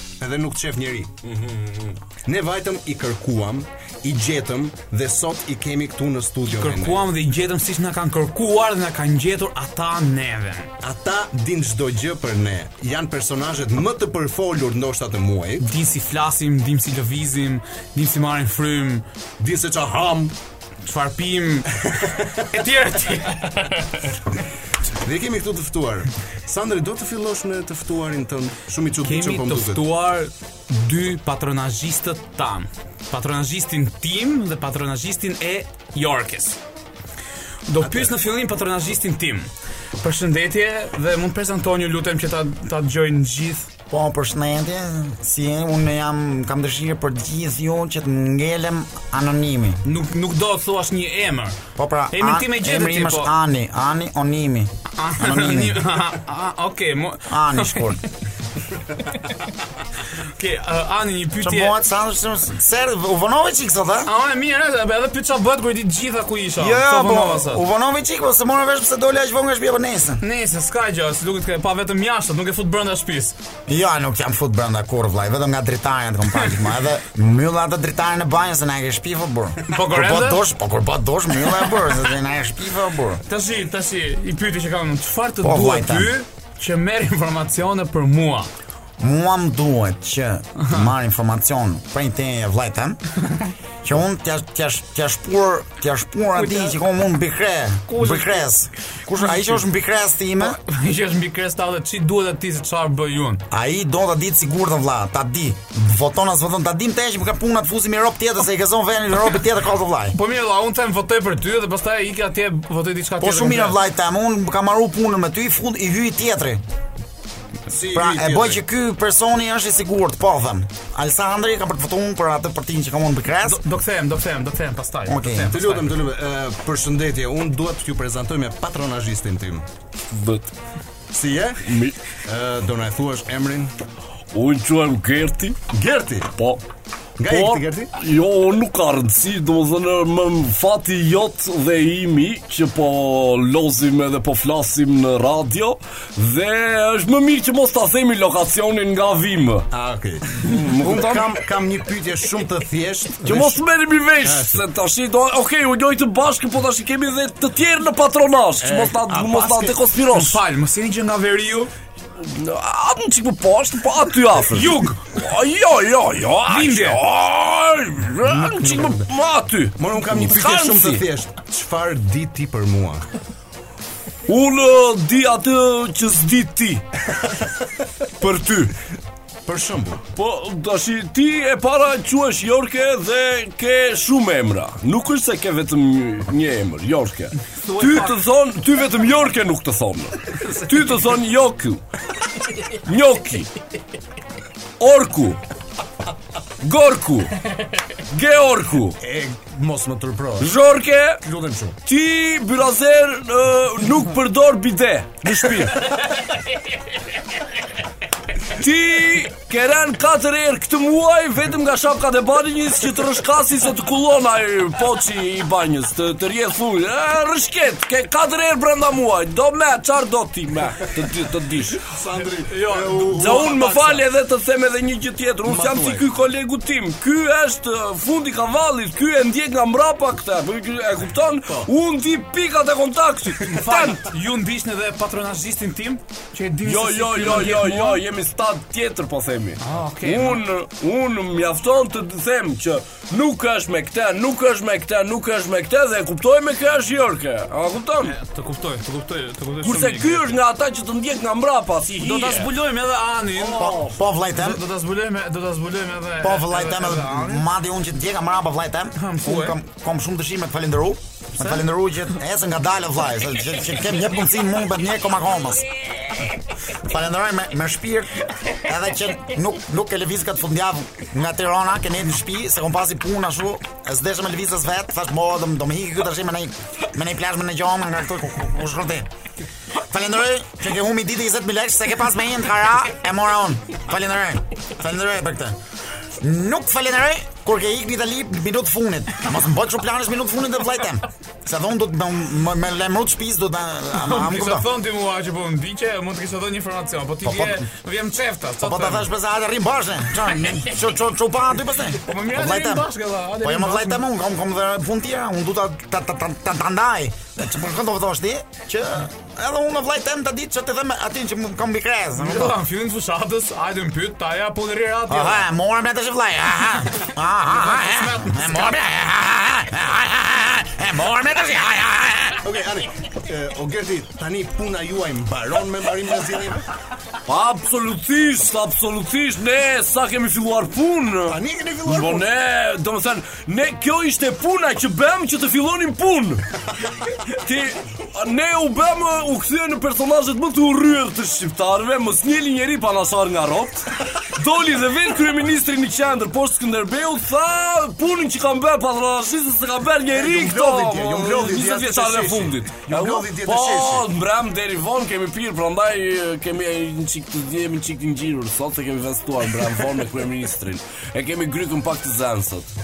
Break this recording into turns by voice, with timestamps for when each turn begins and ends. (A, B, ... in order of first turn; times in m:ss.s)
0:00.2-0:01.1 A
0:01.2-0:02.0 B
0:02.2-0:07.1 A
0:06.4-0:10.7 C
0:10.8-0:15.6 A
0:15.6-0:19.0 C
0:19.4-0:20.3 A
0:20.8-0:24.1 C
0:25.0-0:29.8 A
0:29.0-0:36.6 C
0:37.7-0:39.5 C
0:37.8-0:38.1 A
0:40.0-0:43.7 C
0:43.9-0:49.8 D
0:49.8-0:51.6 C
0:51.8-0:55.9 D
0:52.1-0:53.3 C
0:55.0-0:58.0 C
0:57.3-0:58.0 D
1:00.4-1:01.8 C
1:01.4-1:04.1 D
1:04.0-1:07.6 C
1:06.6-1:10.2 D
1:10.2-1:13.4 C
1:13.7-1:23.2 D
1:19.7-1:20.4 C
1:23.3-1:28.5 C
1:25.4-1:26.1 D
1:29.0-1:33.0 D
1:30.6-1:30.9 C
1:33.8-1:40.6 D
1:36.3-1:36.8 C
1:37.9-1:38.5 C
1:39.1-1:39.6 C
1:40.4-1:43.4 C
1:43.5-1:50.2 D
1:50.1-1:53.8 C
1:53.2-1:56.6 D
1:57.7-1:58.6 A
1:57.9-2:03.6 D
2:03.4-2:06.0 C
2:05.0-2:05.6 D
2:05.5-2:09.6 A
2:10.1-2:10.5 B
2:11.1-2:11.7 A
2:11.6-2:12.0 B
2:12.2-2:13.7 A
2:14.3-2:15.6 B
2:15.7-2:16.3 A
2:16.4-2:16.6 B
2:17.2-2:17.9 A
2:17.2-2:29.7 B
2:29.7-2:33.6 A
2:30.4-2:31.4 B
2:33.2-2:40.4 B
2:34.2-2:34.6 A
2:38.6-2:39.8 A
2:40.1-2:41.7 C
2:42.2-2:51.0 B
2:44.5-2:45.1 C
2:46.5-2:47.0 C
2:48.2-2:49.1 A
2:49.8-2:53.0 A
2:54.3-2:56.8 B
2:58.2-2:58.7 B
2:59.4-3:00.0 A
3:00.1-3:11.8 B
3:07.5-3:08.2 C
3:12.8-3:13.5 B
3:14.8-3:15.4 B
3:16.6-3:17.4 B
3:18.1-3:19.0 B
3:19.0-3:20.5 A
3:20.4-3:21.2 B
3:21.2-3:21.8 A
3:21.8-3:26.0 B
3:28.6-3:41.8 B
3:41.8-3:44.0 A
3:42.4-3:43.2 C
3:43.1-3:54.0 B
3:45.4-3:46.0 A
3:53.4-3:58.0 C
3:56.6-4:08.1 B
3:59.6-4:00.4 C
4:08.0-4:10.4 C
4:09.6-4:12.5 B
4:12.0-4:17.4 C
4:13.4-4:14.6 D
4:16.2-4:25.7 D
4:19.0-4:19.6 C
4:21.4-4:21.6 C
4:26.8-4:39.0 D
4:39.8-4:45.6 D
4:46.2-4:54.7 D
4:53.9-4:59.1 C
4:57.2-4:57.6 D
4:58.6-5:02.9 D
5:02.0-5:04.0 C
5:03.4-5:12.6 D
5:12.2-5:15.5 C
5:15.1-5:22.4 D
5:17.6-5:18.5 C
5:22.4-5:26.6 A
5:27.2-5:36.4 B
5:31.3-5:32.2 A
5:37.3-6:02.7 B
5:50.1-5:54.1 A